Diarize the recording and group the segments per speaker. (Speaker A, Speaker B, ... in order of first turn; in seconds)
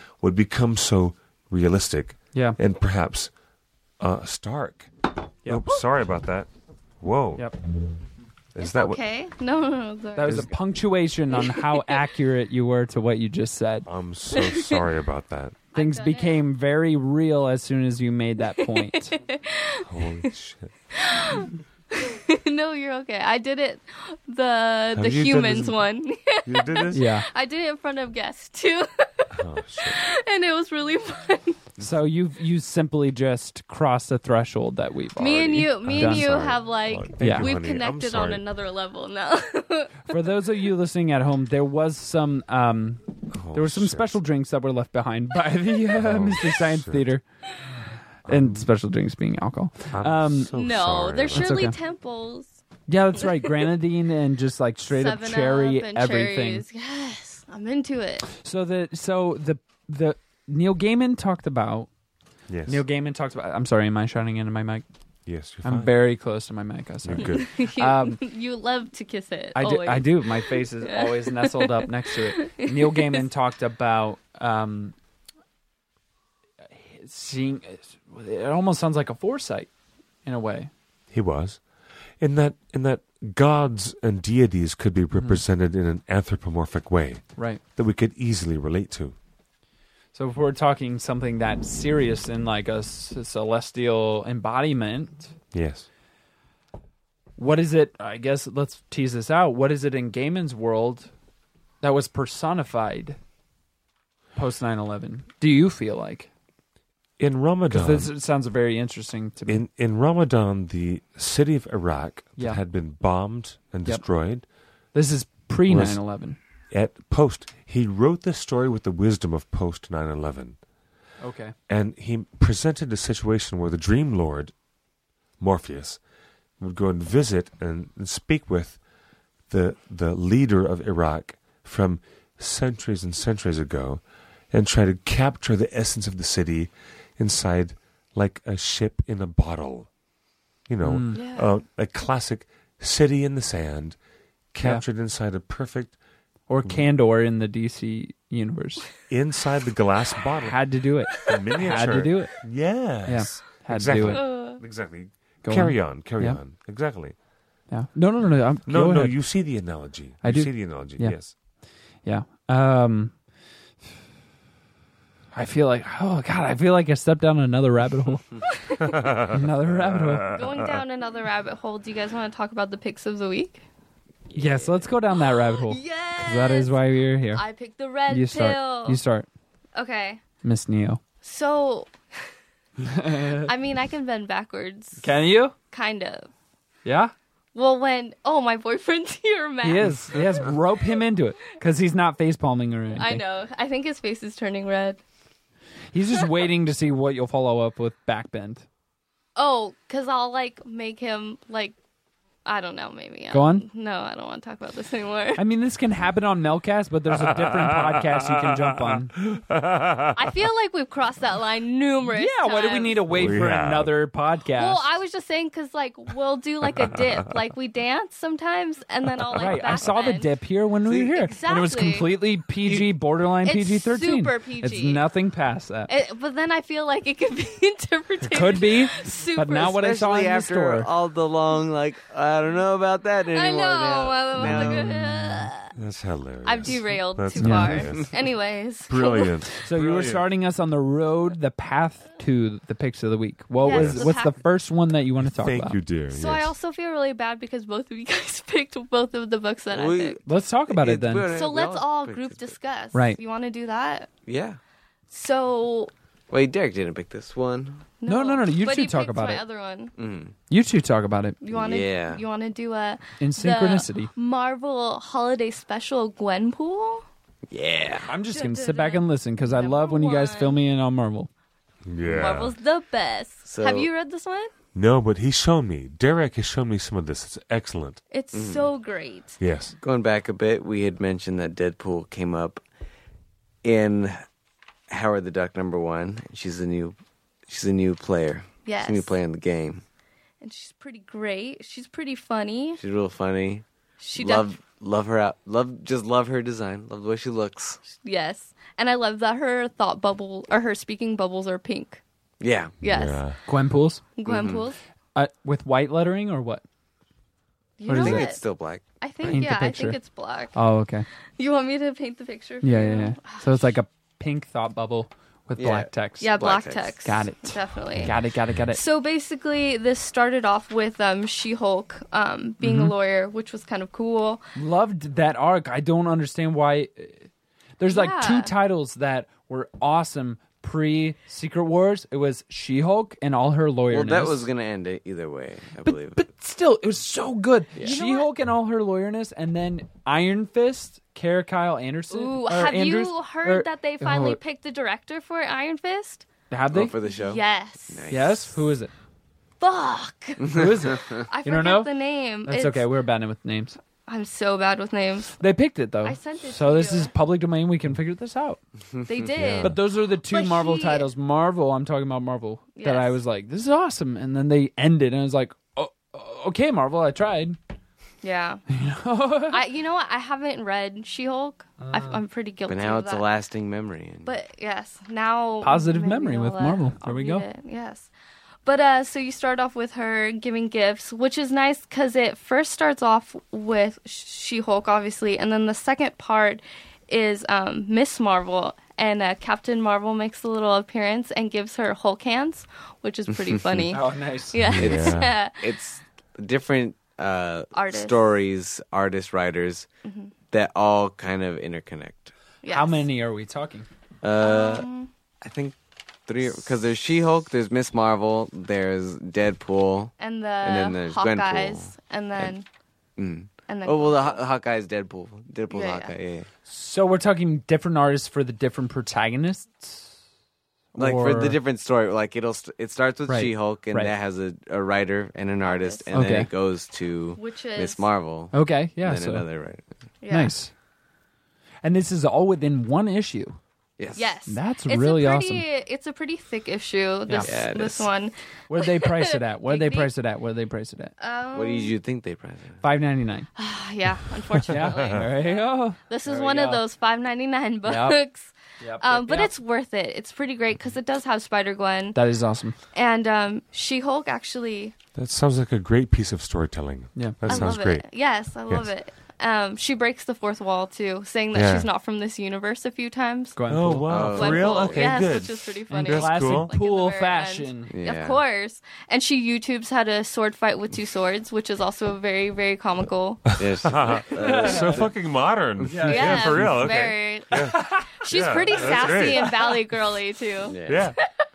Speaker A: 0.2-3.3, 4.0-4.9, 5.5-6.5, 7.0-7.5, 8.5-9.0, 13.9-15.6, 19.8-20.7, 24.9-25.8, 26.4-27.0, 29.3-30.0, 35.8-38.4, 43.3-44.2, 45.9-47.0, 48.3-48.7, 49.9-51.6, 62.5-62.8, 65.3-66.0, 67.0-67.5, 81.1-81.6, 82.2-89.2, 95.5-95.9, 107.2-108.1, 109.5-114.5, 115.7-116.0, 116.7-120.6, 121.7-124.5, 125.4-126.0, 126.6-128.8, 129.5-139.9, 140.7-144.0, 144.5-146.0, 149.1-150.6, 151.1-157.2, 158.7-161.3, 168.8-170.6, 207.3-210.2, 213.1-213.9, 234.4-235.1, 235.7-238.2, 238.9-240.2, 243.7-244.1, 245.3-246.5, 271.9-272.6, 274.8-278.0, 279.4-279.8, 302.8-303.4, 359.4-359.8, 394.7-395.4, 444.7-445.2, 455.1-458.1, 461.5-461.9, 463.7-466.7, 473.6-479.6, 480.9-481.2
Speaker B: 5.5-5.8, 10.2-13.9, 15.8-19.2, 26.9-27.3, 31.8-36.4, 37.2-37.5, 40.1-47.2, 48.3-50.5, 51.3-51.8, 52.9-56.6, 58.3-61.9, 62.7-64.8, 65.6-68.2, 69.5-75.0, 76.9-79.7, 80.2-80.7, 85.1-85.4, 90.2-95.3, 97.4-101.1, 101.8-103.2, 104.4-106.3, 107.7-109.6, 114.9-116.4, 121.2-121.5, 140.8-141.2, 146.5-148.9, 150.4-152.3, 153.1-154.2, 155.4-156.4, 157.7-159.2, 160.2-161.2, 162.1-163.1, 165.3-168.2, 169.3-170.3, 174.3-177.4, 178.1-179.3, 180.4-181.0, 182.8-183.5, 185.0-185.5, 186.9-187.1, 189.6-193.2, 195.9-198.7, 203.3-203.7, 205.4-209.1, 212.1-214.8, 219.4-225.9, 228.3-230.9, 237.4-237.8, 239.6-245.8, 250.2-251.3, 252.9-253.2, 258.1-259.4, 260.5-261.4, 263.2-264.1, 268.1-271.3, 303.5-304.0, 305.1-306.6, 307.9-308.3, 309.2-310.0, 310.6-311.1, 312.6-316.4, 317.0-318.8, 322.6-322.9, 324.6-327.3, 327.8-334.5, 335.9-344.4, 346.5-347.0, 348.1-348.9, 350.5-351.9, 352.5-353.8, 355.4-358.6, 359.6-367.6, 368.7-369.6, 371.8-372.2, 375.6-377.4, 393.9-394.6, 402.7-403.9, 416.7-420.1, 420.9-421.6, 423.3-424.1, 426.1-426.5, 428.5-429.4, 430.3-430.7, 431.8-433.6, 434.5-435.6, 438.7-441.1, 442.8-443.5, 444.7-446.8, 447.9-448.2, 448.8-449.5, 452.1-452.8, 457.2-457.7, 463.6-464.1, 465.9-467.9, 474.4-474.9, 475.9-476.8, 477.5-478.2, 478.8-479.5
Speaker C: 8.6-10.5, 11.4-12.0, 14.3-14.8, 15.7-16.4, 18.6-20.3, 20.9-31.6, 35.2-40.2, 50.5-52.6, 53.2-53.6, 54.9-58.3, 67.2-73.2, 141.1-141.5, 154.1-154.6, 168.6-168.9, 170.3-173.6, 175.1-179.0, 179.8-180.2, 181.2-181.9, 183.4-185.1, 185.7-186.3, 187.6-190.5, 193.0-195.0, 199.4-201.8, 202.4-205.4, 210.1-213.3, 214.6-220.3, 221.2-222.1, 223.4-225.0, 225.9-229.8, 233.3-235.7, 236.4-239.4, 243.6-244.4, 246.1-250.2, 251.3-254.1, 255.1-255.9, 258.0-259.9, 261.4-267.1, 268.3-270.6, 272.1-274.5, 278.1-279.4, 288.7-289.1, 290.4-292.8, 294.0-294.5, 298.0-302.0, 302.8-303.3, 304.2-304.8, 307.8-308.4, 309.0-310.6, 311.4-313.5, 316.2-318.1, 318.7-324.4, 327.9-328.5, 337.8-338.3, 342.1-346.3, 347.0-348.2, 349.6-352.9, 354.1-355.4, 356.0-357.1, 359.1-361.1, 362.8-363.2, 368.2-368.6, 369.5-373.3, 374.2-378.1, 378.6-395.6, 397.7-398.3, 400.1-400.3, 402.6-403.1, 404.4-405.1, 410.2-412.7, 413.7-414.4, 415.7-416.1, 425.6-426.1, 427.4-428.1, 430.2-430.5, 434.1-440.1, 441.2-441.9, 443.6-452.2, 452.9-454.9, 457.5-463.6, 464.2-473.6, 476.1-481.3
Speaker D: 174.3-174.9, 220.9-221.2, 229.6-235.0, 249.7-252.5, 254.3-254.6, 256.3-257.9, 260.0-260.4, 261.5-262.2, 267.5-268.1, 273.5-273.9, 278.3-278.7, 279.8-282.6, 283.6-284.2, 284.9-289.8, 292.8-293.6, 294.2-297.8, 302.4-302.8, 304.3-304.7, 307.9-308.8, 315.6-316.9, 333.9-336.2, 346.7-348.6, 350.4-351.2, 372.7-374.3, 393.3-393.9, 394.8-399.9, 400.5-402.3, 404.2-404.9, 405.4-412.5, 413.2-416.5, 421.0-429.9, 434.0-434.3, 437.4-438.1, 441.5-442.8, 464.1-465.3, 467.9-468.4, 473.6-475.1, 480.6-481.1